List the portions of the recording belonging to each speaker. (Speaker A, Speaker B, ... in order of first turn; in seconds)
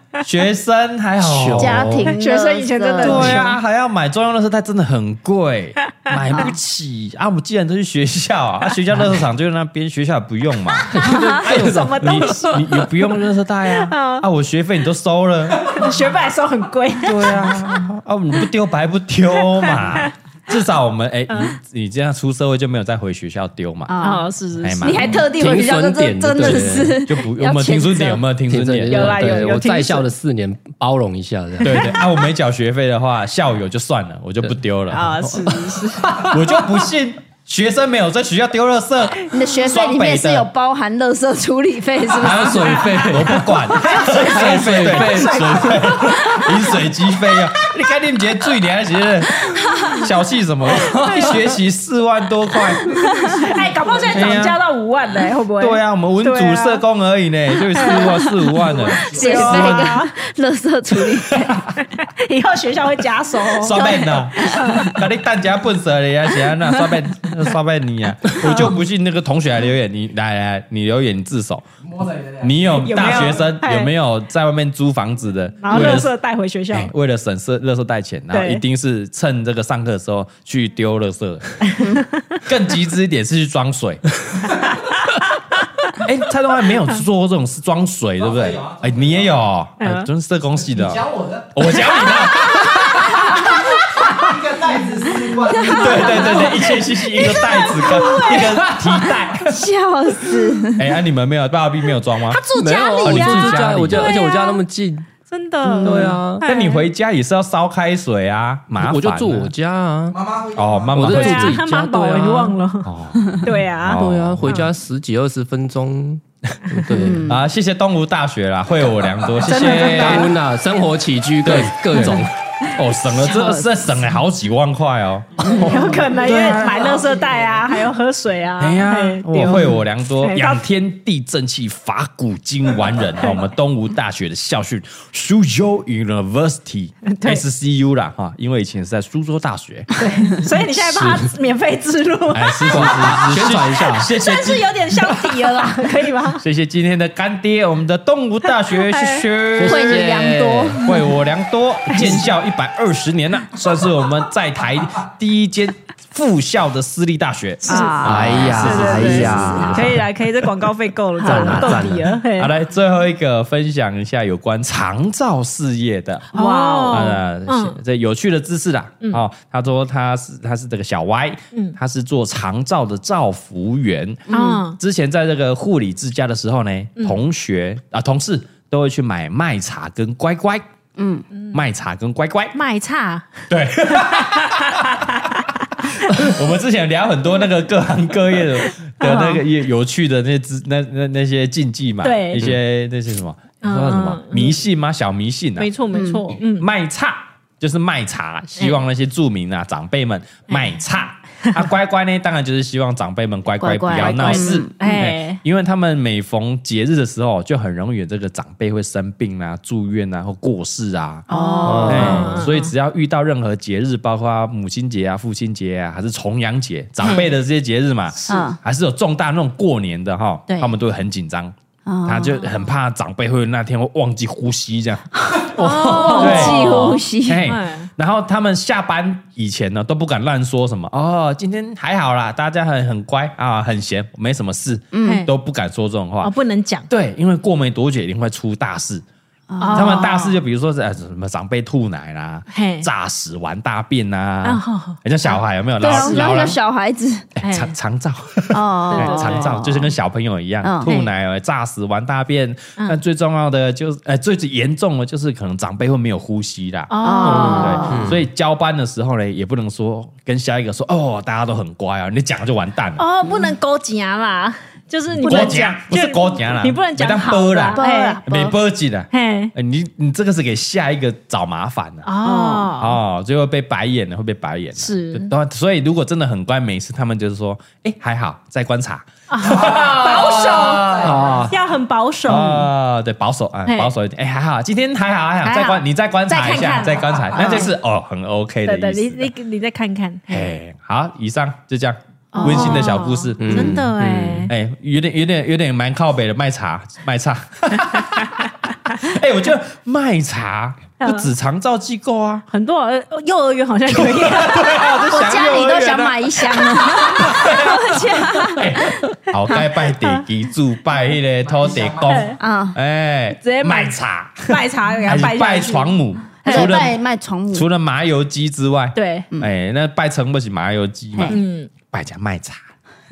Speaker A: 0.2-1.9, 3.0-15.9, 17.0-23.9, 24.6-25.2, 26.4-29.5, 31.6-40.5, 42.2-52.8, 54.1-54.6, 55.6-60.0, 61.0-61.6, 63.6-71.7, 72.4-76.1, 76.7-81.7, 82.4-84.2, 86.0-93.5, 95.7-99.6, 100.8-102.4, 103.0-104.1, 106.4-109.5, 110.5-111.6, 112.8-114.5, 116.7-120.3, 121.4-127.0, 128.6-139.9, 142.3-145.4, 146.4-159.7, 162.3-180.7, 181.5-182.5, 183.5-185.1, 185.8-193.4, 194.2-195.7, 196.5-211.3, 211.9-236.3, 236.9-239.0, 239.7-246.6, 247.4-263.1, 265.1-272.1, 272.8-281.5, 282.2-289.3, 290.3-293.9, 294.5-302.4, 303.9-317.0, 317.5-322.7
Speaker B: 1.2-2.1, 10.9-12.6, 25.2-27.0, 28.5-32.0, 42.1-45.7, 75.7-76.0, 102.5-105.0, 105.8-106.4, 108.7-110.2, 110.9-112.6, 113.8-117.4, 119.5-122.3, 140.6-141.3, 142.7-144.1, 149.5-150.8, 158.0-160.1, 161.2-162.2, 193.6-194.2, 211.6-212.4, 257.9-258.2, 281.0-281.5, 293.4-294.5
Speaker C: 1.6-3.5, 6.3-6.5, 23.9-24.3, 24.8-28.2, 39.2-43.1, 49.4-49.9, 52.8-53.4, 57.9-58.4, 59.0-61.7, 63.7-65.0, 92.9-93.4, 95.2-98.5, 99.4-100.9, 105.6-106.3, 116.9-117.4, 122.0-122.2, 123.1-123.7, 129.4-129.8, 149.6-151.1, 151.9-152.3, 157.7-159.9, 161.2-161.8, 166.3-166.9, 174.3-174.6, 180.9-181.3, 195.9-196.2, 203.6-204.7, 211.3-212.3, 218.3-218.6, 221.8-222.5, 225.2-227.5, 234.9-235.2, 239.5-240.2, 245.3-247.3, 248.5-249.9, 250.6-250.9, 257.0-258.2, 265.2-265.6, 267.7-268.6, 272.2-272.7, 287.3-287.7, 292.4-292.9, 305.1-309.6, 312.4-312.8, 316.4-317.7
Speaker D: 2.0-3.6, 11.0-12.9, 13.7-14.3, 15.6-17.4, 19.5-20.1, 21.3-21.6, 24.0-25.2, 28.9-30.1, 34.9-36.5, 43.7-46.8, 50.7-51.5, 53.2-56.8, 57.7-60.1, 61.7-65.0, 68.4-68.7, 72.7-73.9, 75.6-76.9, 78.3-78.6, 81.7-82.4, 89.8-90.1, 92.6-93.2, 97.2-98.5, 102.3-104.6, 105.3-106.9, 111.0-114.7, 119.4-120.3, 125.5-130.6, 137.1-137.4, 140.0-143.1, 144.0-146.4, 148.7-149.2, 157.6-162.5, 166.3-167.8, 174.3-174.8, 181.3-181.6, 182.5-186.3, 189.0-189.4, 192.0-192.5, 193.6-194.6, 195.6-196.7, 198.6-198.8, 204.0-205.4, 211.3-212.7, 217.0-217.3, 218.2-218.5, 220.5-220.7, 225.6-227.9, 235.0-235.3, 236.2-236.9, 239.6-240.3, 242.5-242.9, 244.4-245.0, 245.8-246.5, 247.4-247.8, 248.9-249.6, 250.8-251.1, 256.9-258.0, 263.0-268.2, 269.1-269.5, 272.0-273.0, 274.8-275.3, 279.3-282.7, 283.7-283.9, 285.4-287.7, 288.6-290.5, 292.3-294.5, 301.0-301.3, 302.5-304.9, 306.8-308.8, 309.5-310.2, 312.1-312.4, 313.4-316.9, 318.9-319.3, 321.3-321.7
Speaker E: 53.4-54.4, 58.6-59.6, 71.8-73.4, 88.2-89.4, 90.7-91.7, 94.0-96.5, 98.6-98.9, 110.1-111.1, 125.5-127.7, 279.4-281.6, 311.4-312.3